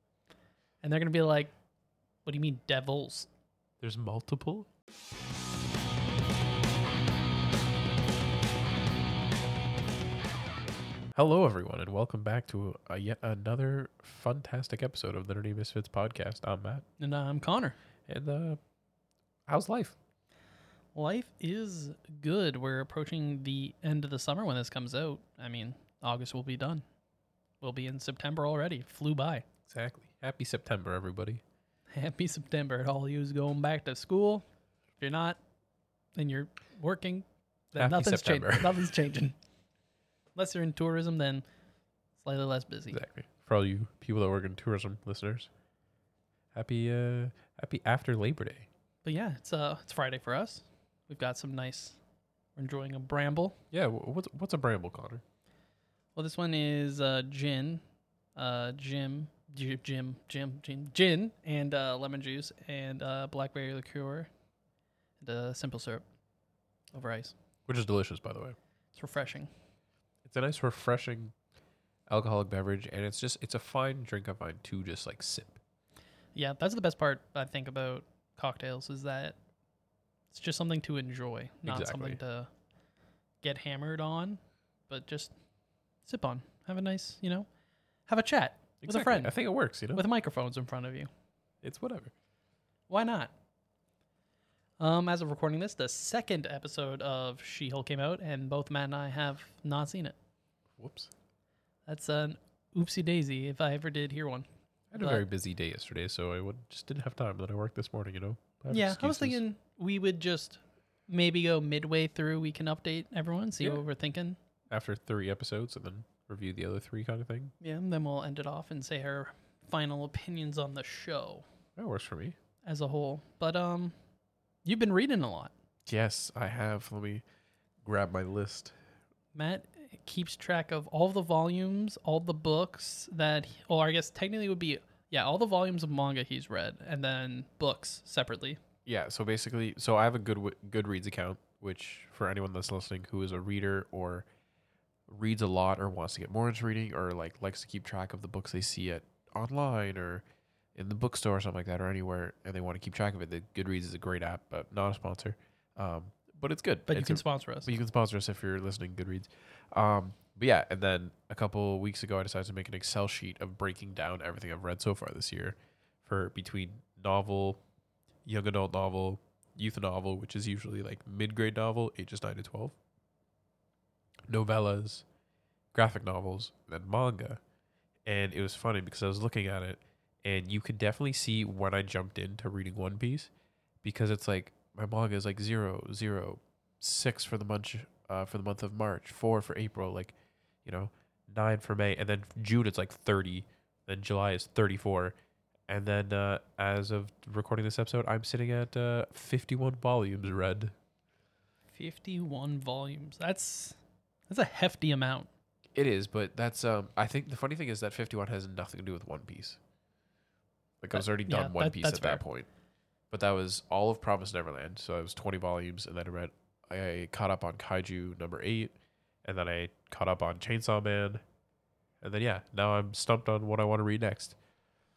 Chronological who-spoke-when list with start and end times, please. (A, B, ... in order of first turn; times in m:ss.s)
0:00.8-0:01.5 A
0:02.2-0:03.3 A
0:03.8-0:04.7 B
0:11.1-0:16.8 B
0:17.0-0:17.8 A
0:18.1-0:18.6 B
0:19.5-0:20.0 B
0:21.0-0:26.8 A
0:27.6-0:29.5 A
0:29.7-0:31.4 B
0:31.9-0:34.4 A
0:35.0-0:35.4 A
0:36.2-0:39.4 A
0:37.8-0:38.9 B
0:40.4-0:41.4 A
0:42.2-0:43.0 A
0:42.9-0:45.5 B
0:46.5-0:48.7 B
0:49.0-0:52.0 A
0:52.6-0:53.6 A
0:53.7-0:55.2 B
0:56.2-0:57.8 A
0:58.4-1:04.3 A
1:05.2-1:06.0 A
1:06.9-1:07.3 A
1:07.7-1:08.6 B
1:08.9-1:09.5 A
1:10.2-1:11.3 B
1:12.1-1:15.6 B
1:16.4-1:19.4 A
1:20.3-1:22.5 A
1:21.6-1:22.2 B
1:23.4-1:25.3 A
1:26.1-1:27.5 A
1:28.1-1:29.3 A
1:28.8-1:30.0 B
1:30.0-1:31.1 A
1:31.6-1:32.1 B
1:32.9-1:33.3 A
1:34.8-1:40.2 A
1:40.8-1:41.1 B
1:41.9-1:44.5 A
1:44.9-1:49.4 B
1:45.0-1:45.2 A
1:48.7-1:54.4 A
1:54.7-1:57.5 B
1:57.6-2:01.4 A
2:01.8-2:02.4 B
2:02.6-2:04.0 A
2:04.6-2:05.5 A
2:05.9-2:07.2 B
2:07.8-2:08.7 B
2:09.4-2:18.6 A
2:18.9-2:24.3 B
2:25.1-2:30.2 B
2:30.8-2:47.6 B
2:36.9-2:37.7 A
2:48.2-2:52.8 B
2:54.3-2:55.0 B
2:55.7-2:57.4 B
2:58.0-3:03.3 B
3:03.8-3:15.2 B
3:15.7-3:20.7 B
3:21.8-3:23.8 A
3:24.3-3:25.3 A
3:25.8-3:29.6 B
3:30.8-3:32.5 B
3:30.9-3:32.2 A
3:33.1-3:38.7 B
3:39.2-3:41.2 B
3:42.0-3:44.4 B